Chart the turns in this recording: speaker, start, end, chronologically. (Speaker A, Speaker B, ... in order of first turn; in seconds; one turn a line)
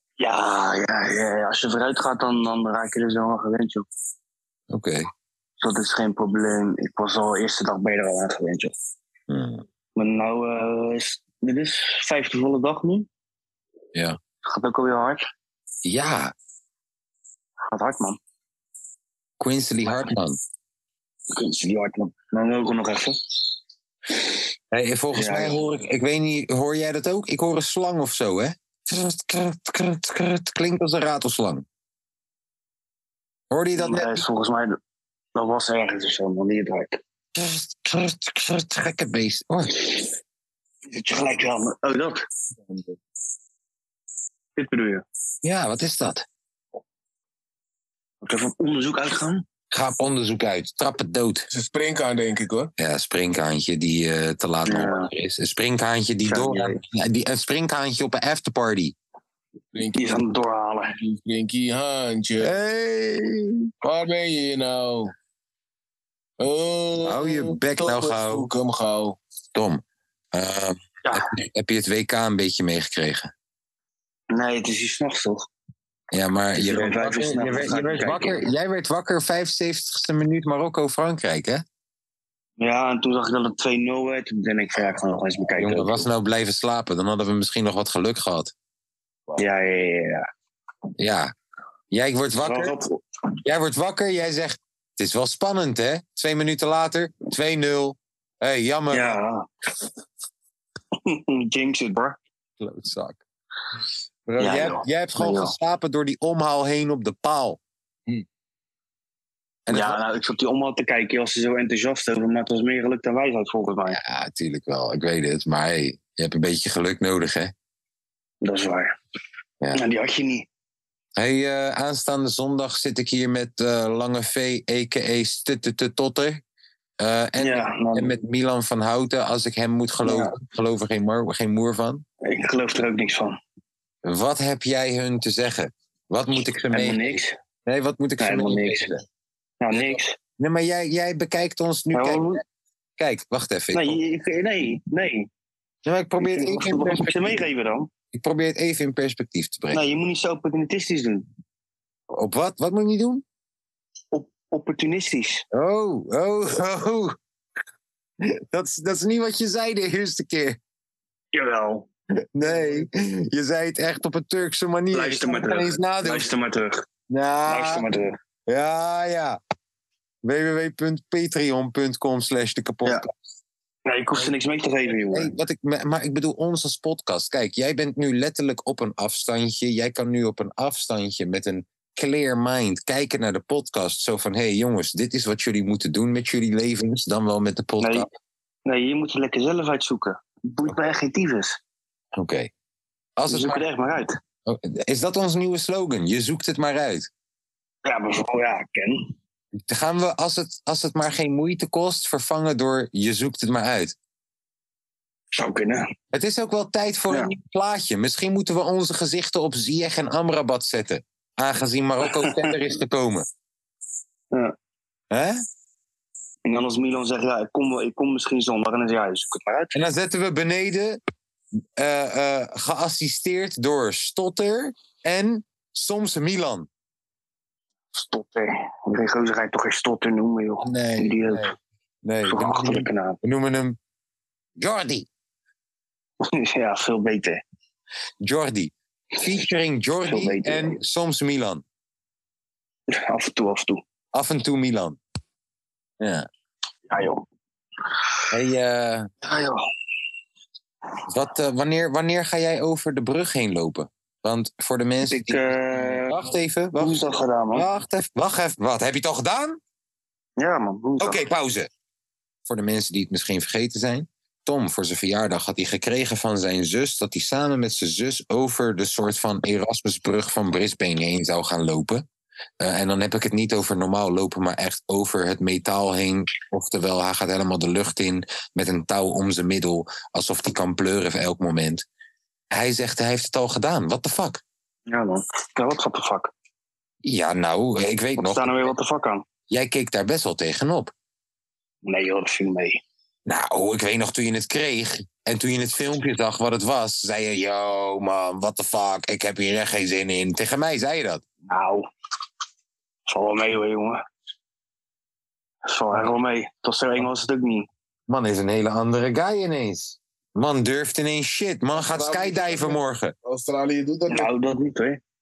Speaker A: 0.2-3.9
Speaker B: 4.7-5.1
Speaker A: 5.6-8.7
Speaker B: 9.3-9.6
Speaker A: 9.9-13.1
Speaker A: 14.4-15.2
Speaker B: 15.8-16.3
Speaker A: 17.7-18.2
Speaker B: 19.4-20.4
Speaker A: 21.3-23.2
Speaker B: 24.7-31.6
Speaker A: 25.1-25.6
Speaker B: 33.5-34.2
Speaker A: 33.7-34.7
Speaker A: 35.3-37.0
Speaker B: 37.3-39.9
Speaker A: 40.9-42.2
Speaker A: 44.6-45.0
Speaker B: 45.4-46.2
Speaker A: 48.2-49.4
Speaker B: 49.7-51.5
Speaker C: 51.5-52.7
Speaker B: 52.8-58.9
Speaker A: 54.7-55.1
Speaker A: 56.2-56.8
Speaker C: 59.7-60.3
Speaker A: 59.9-60.9
Speaker C: 60.9-62.5
Speaker B: 62.4-63.7
Speaker C: 63.8-65.1
Speaker C: 66.4-69.2
Speaker B: 67.0-68.5
Speaker B: 69.5-73.3
Speaker A: 74.3-75.5
Speaker B: 76.1-81.6
Speaker A: 76.5-78.4
Speaker A: 82.6-86.1
Speaker B: 85.6-88.5
Speaker A: 89.4-90.2
Speaker B: 91.0-91.3
Speaker B: 91.9-92.7
Speaker A: 92.4-93.0
Speaker B: 93.4-99.2
Speaker A: 98.9-99.4
Speaker A: 101.0-102.2
Speaker B: 102.6-103.2
Speaker B: 104.3-107.6
Speaker A: 104.4-105.5
Speaker B: 109.7-110.0
Speaker A: 109.7-114.0
Speaker B: 113.9-117.5
Speaker A: 118.4-118.9
Speaker A: 119.7-120.5
Speaker B: 121.2-126.4
Speaker B: 127.0-132.0
Speaker A: 127.4-128.1
Speaker A: 130.0-130.3
Speaker A: 132.2-133.3
Speaker B: 134.0-139.0
Speaker A: 136.7-137.3
Speaker A: 138.2-139.0
Speaker A: 139.6-140.1
Speaker B: 139.7-142.4
Speaker A: 141.9-142.4
Speaker B: 143.0-144.0
Speaker A: 143.7-145.3
Speaker B: 145.8-147.4
Speaker A: 146.2-147.9
Speaker B: 148.1-149.8
Speaker A: 149.7-151.2
Speaker B: 152.1-153.2
Speaker A: 154.1-155.4
Speaker B: 155.5-157.2
Speaker B: 158.2-160.6
Speaker A: 161.3-161.9
Speaker B: 162.3-166.3
Speaker A: 164.9-166.8
Speaker B: 167.1-167.9
Speaker A: 167.5-168.1
Speaker B: 168.5-169.4
Speaker B: 170.2-173.1
Speaker A: 173.9-175.3
Speaker B: 175.1-188.1
Speaker A: 187.8-188.1
Speaker A: 188.7-191.6
Speaker B: 192.2-192.5
Speaker B: 193.2-193.6
Speaker A: 193.3-194.1
Speaker B: 194.4-197.1
Speaker A: 197.8-199.1
Speaker B: 199.6-203.9
Speaker A: 205.3-205.8
Speaker B: 206.1-213.2
Speaker A: 212.0-212.5
Speaker B: 215.1-215.4
Speaker A: 216.4-219.8
Speaker B: 219.7-221.0
Speaker B: 221.8-226.7
Speaker A: 227.9-231.5
Speaker B: 230.6-233.8
Speaker A: 232.2-233.2
Speaker B: 234.6-235.1
Speaker A: 236.2-237.4
Speaker B: 238.2-241.6
Speaker A: 240.1-240.8
Speaker A: 242.9-243.8
Speaker B: 244.1-245.0
Speaker B: 246.0-246.3
Speaker A: 246.9-247.2
Speaker B: 248.3-249.1
Speaker A: 249.2-249.6
Speaker B: 251.1-259.6
Speaker A: 255.1-256.2
Speaker A: 256.8-257.6
Speaker A: 260.4-261.2
Speaker B: 261.0-261.7
Speaker B: 262.4-272.0
Speaker B: 272.6-281.8
Speaker B: 282.5-284.4
Speaker A: 284.9-286.3
Speaker B: 287.0-288.7
Speaker A: 288.2-289.2
Speaker B: 289.5-290.9
Speaker A: 291.8-292.8
Speaker B: 293.2-301.2
Speaker A: 301.5-301.9
Speaker A: 303.1-304.0
Speaker A: 305.7-307.7
Speaker B: 308.1-313.1
Speaker C: 311.7-314.3
Speaker A: 314.1-315.0